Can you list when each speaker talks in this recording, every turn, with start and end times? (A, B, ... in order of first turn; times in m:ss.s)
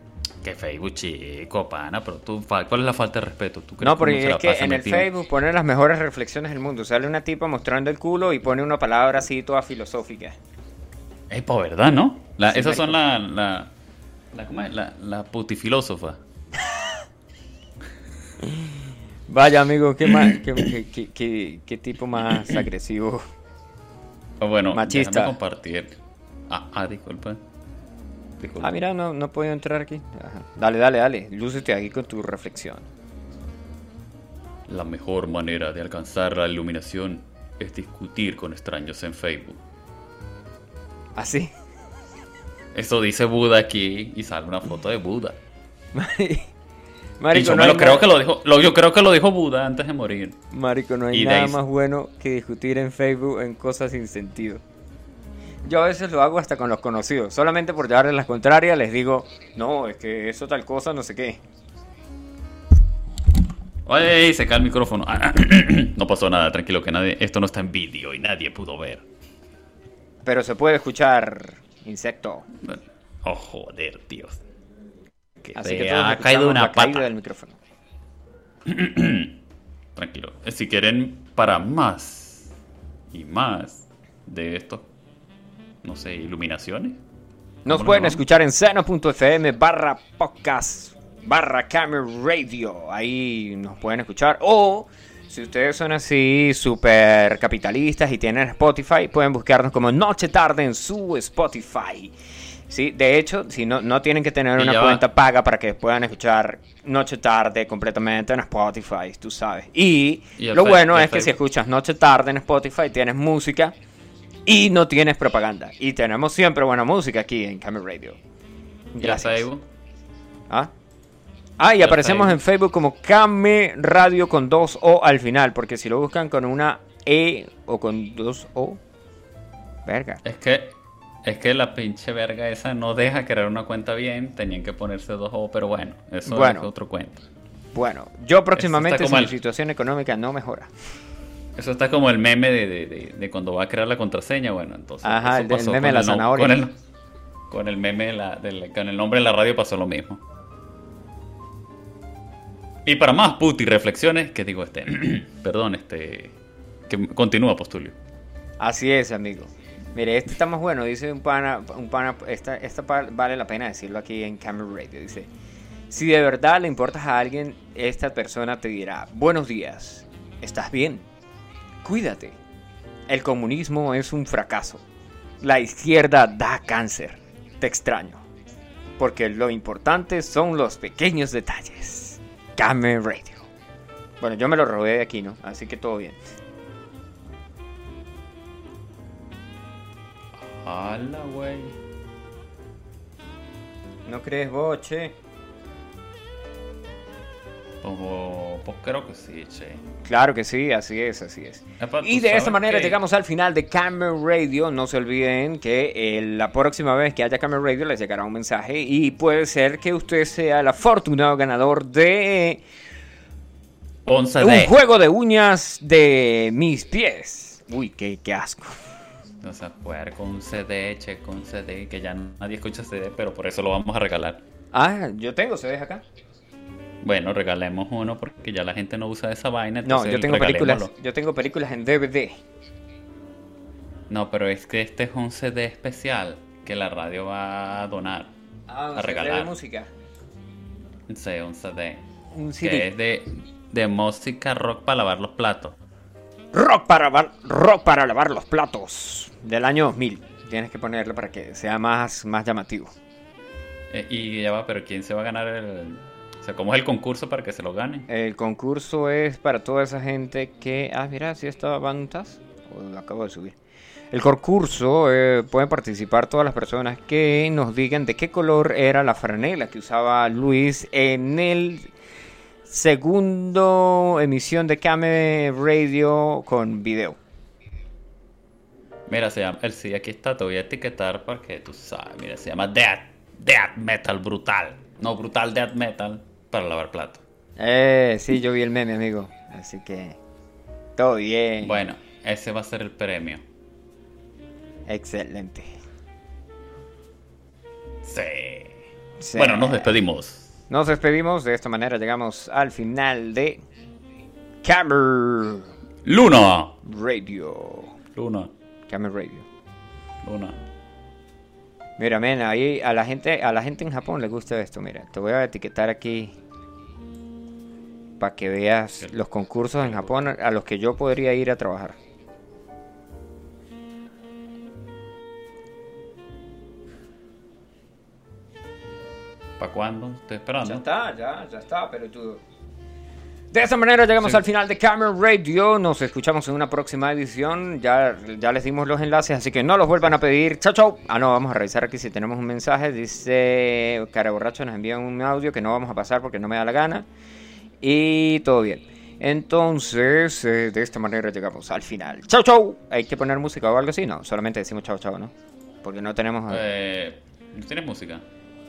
0:00.4-0:05.1 A
0:03.8-0:10.4 B
0:11.3-0:13.7 A
0:12.5-0:13.0 B
0:14.3-0:16.2 A
0:19.3-0:23.2 B
0:24.4-0:26.0 A
0:24.7-0:25.4 B
0:26.5-0:27.4 A
0:28.4-0:28.8 A
0:28.6-0:32.8 B
0:34.7-0:39.6 A
0:41.2-0:41.5 B
0:42.7-0:45.4 A
0:45.9-0:46.5 B
0:47.2-0:48.0 B
0:47.3-0:50.4 A
0:50.5-0:54.6 B
0:51.1-0:51.6 A
0:55.6-1:01.4 B
1:03.8-1:09.0 A
1:10.2-1:12.4 B
1:12.6-1:14.4 A
1:15.4-1:17.1 A
1:15.5-1:17.6 B
1:18.7-1:19.4 A
1:19.9-1:22.5 A
1:23.1-1:24.9 A
1:25.8-1:27.0 A
1:27.6-1:42.1 B
1:27.7-1:28.2 A
1:42.7-1:53.7 B
1:44.6-1:45.0 A
1:50.4-1:51.4 A
1:54.4-1:58.2 B
1:58.9-1:59.5 B
1:59.0-1:59.6 A
2:01.6-2:08.8 B
2:01.8-2:02.4 A
2:09.8-2:10.2 B
2:10.2-2:17.2 A
2:16.2-2:16.7 B
2:17.7-2:20.7 B
2:18.5-2:19.3 A
2:21.6-2:26.8 A
2:25.0-2:26.7 B
2:27.5-2:30.2 A
2:32.8-2:36.3 A
2:36.9-2:37.9 A
2:38.6-2:45.3 B
2:45.9-2:51.0 B
2:51.8-2:52.4 B
2:53.1-2:54.8 B
2:55.4-2:58.2 B
2:59.0-3:03.4 B
3:04.2-3:06.2 B
3:10.4-3:11.7 A
3:14.0-3:15.2 B
3:17.8-3:19.8 A
3:20.0-3:32.6 B
3:21.8-3:23.0 A
3:34.0-3:34.7 A
3:34.4-3:38.9 B
3:39.4-3:44.4 A
3:44.7-3:46.0 B
3:47.0-3:50.9 A
3:49.8-3:52.4 B
3:54.1-3:58.3 A
3:58.7-3:59.9 B
3:58.9-3:59.5 A
4:01.1-4:02.0 A
4:02.3-4:02.9 B
4:02.6-4:05.8 A
4:06.5-4:12.9 B
4:13.9-4:18.1 A
4:18.1-4:23.6 B
4:24.1-4:31.9 B
4:32.7-4:37.2 B
4:39.1-4:47.2 A
4:47.6-4:50.2 B
4:51.0-4:51.9 B
4:51.6-4:53.4 A
4:54.9-4:55.7 B
4:58.0-4:58.8 A
4:59.2-4:59.9 B
4:59.3-5:00.5 A
5:00.7-5:03.6 B
5:04.6-5:05.7 B
5:06.0-5:06.8 A
5:06.8-5:07.9 B
5:08.2-5:08.5 A
5:08.9-5:09.4 B
5:10.2-5:10.6 A
5:12.0-5:16.4 B
5:18.2-5:22.0 B
5:19.8-5:20.3 A
5:29.6-5:30.8 A
5:30.6-5:32.4 B
5:33.5-5:47.1 B
5:47.8-5:56.6 B
5:56.5-5:58.2 A